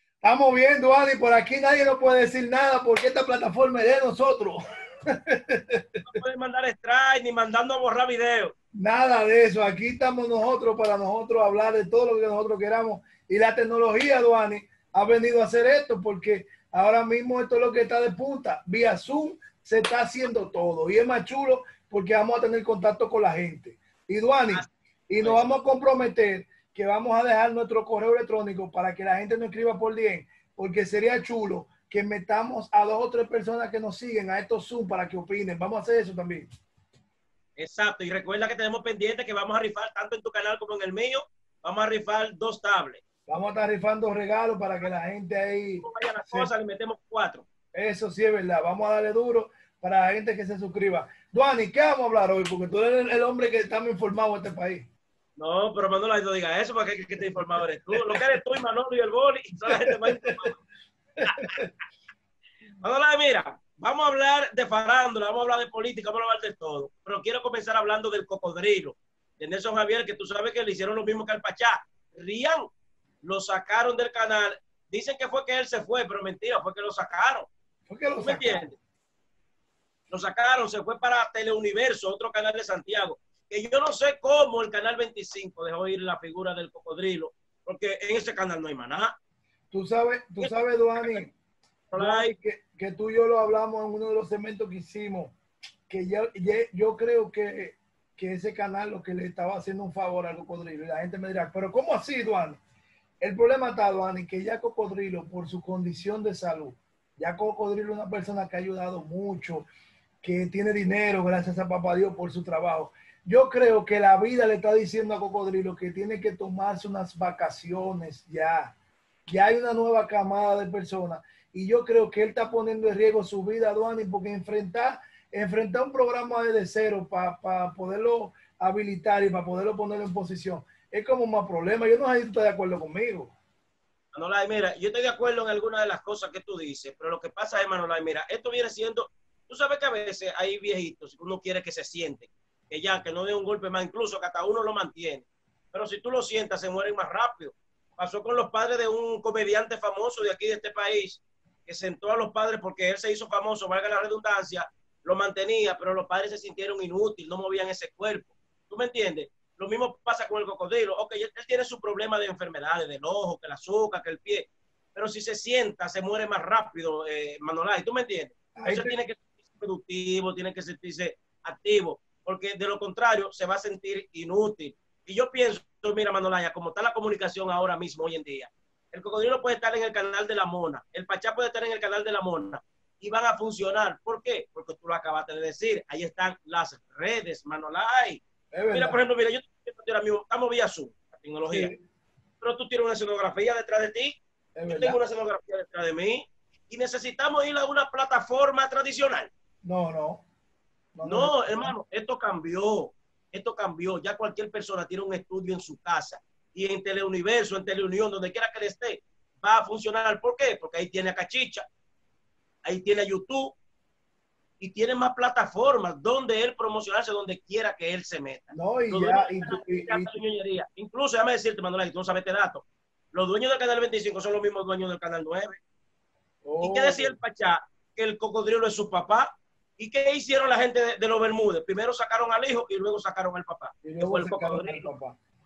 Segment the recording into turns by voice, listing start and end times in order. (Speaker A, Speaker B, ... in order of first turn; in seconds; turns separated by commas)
Speaker A: 0.2-4.6, Speaker A: 5.1-5.9, Speaker B: 6.0-8.5, Speaker A: 8.8-36.5, Speaker B: 24.5-25.5, Speaker B: 37.6-43.0, Speaker A: 43.3-46.5, Speaker B: 45.8-47.5, Speaker A: 47.7-54.9, Speaker B: 55.4-60.6, Speaker A: 57.2-58.4, Speaker A: 59.7-60.3, Speaker A: 61.2-61.7, Speaker B: 61.3-61.5, Speaker B: 62.8-72.7, Speaker B: 73.2-77.5, Speaker A: 77.9-78.7, Speaker B: 78.2-78.8, Speaker B: 80.1-89.2, Speaker A: 89.7-91.3, Speaker B: 90.4-91.3, Speaker B: 91.9-92.3, Speaker A: 92.0-95.3, Speaker A: 95.9-102.6, Speaker A: 103.2-109.7, Speaker A: 110.2-118.7, Speaker A: 119.3-133.3, Speaker B: 134.1-191.7, Speaker A: 168.6-169.0, Speaker A: 188.5-189.0, Speaker A: 191.5-191.8, Speaker B: 192.4-199.3, Speaker A: 194.6-195.0, Speaker A: 199.6-200.2, Speaker A: 200.9-201.7, Speaker B: 201.0-211.6, Speaker B: 212.7-213.6, Speaker B: 214.6-225.6, Speaker A: 218.5-220.1, Speaker A: 226.4-227.2, Speaker B: 226.6-234.9, Speaker A: 233.8-235.2